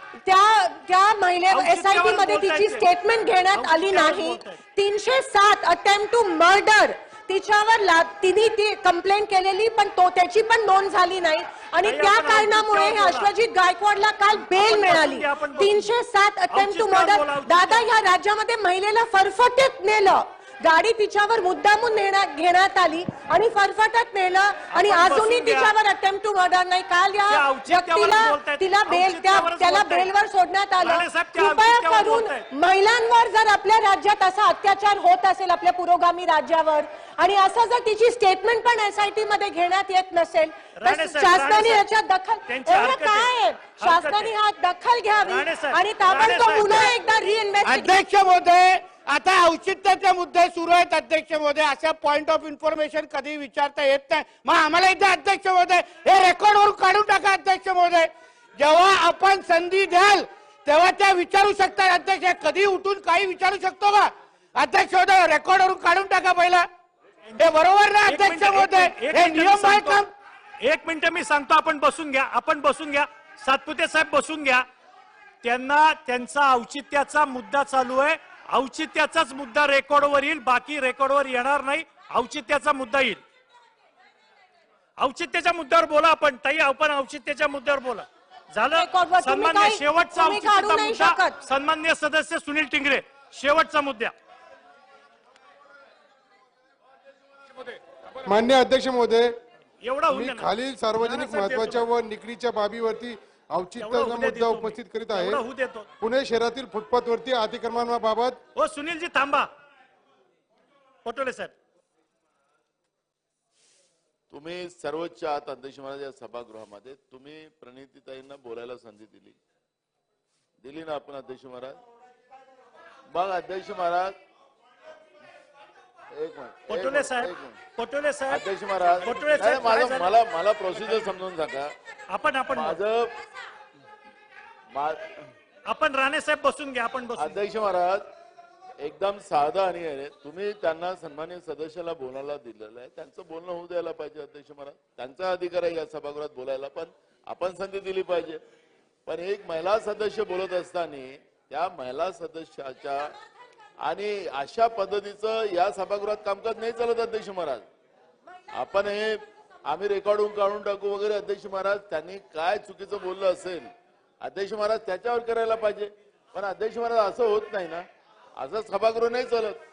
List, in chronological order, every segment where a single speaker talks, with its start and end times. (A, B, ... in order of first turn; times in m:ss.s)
0:00.2-0:48.0 A
0:01.5-0:02.9 B
0:03.5-0:04.6 B
0:11.8-0:13.3 B
0:14.4-0:15.9 B
0:16.5-0:17.9 B
0:24.7-0:25.7 B
0:27.3-0:30.1 B
0:30.8-0:32.5 B
0:40.8-0:41.8 B
0:42.5-0:44.3 B
0:45.2-0:46.9 B
0:47.7-0:58.1 C
0:58.6-1:04.0 C
1:04.6-1:06.6 C
1:07.3-1:07.5 B
1:07.5-1:10.0 C
1:08.0-1:10.1 B
1:10.6-1:14.6 B
1:15.4-1:23.2 B
1:25.0-1:34.1 B
1:28.7-1:31.4 A
1:38.2-1:39.4 D
1:39.8-1:41.8 B
1:40.1-1:45.4 D
1:43.8-1:45.9 B
1:46.0-1:48.4 D
1:48.6-1:49.5 B
1:51.0-1:51.5 B
1:54.3-1:59.4 E
2:00.6-2:01.8 E
2:03.1-2:04.1 E
2:06.1-2:07.6 E
2:06.7-2:08.4 B
2:08.3-2:11.7 E
2:09.0-2:10.1 B
2:12.1-2:12.8 B
2:12.5-2:13.2 E
2:14.7-2:15.2 E
2:15.6-2:17.4 B
2:17.2-2:18.0 E
2:18.8-2:28.4 E
2:29.1-2:33.1 E
2:33.8-2:37.7 E
2:38.5-2:47.8 E
2:48.4-2:49.6 E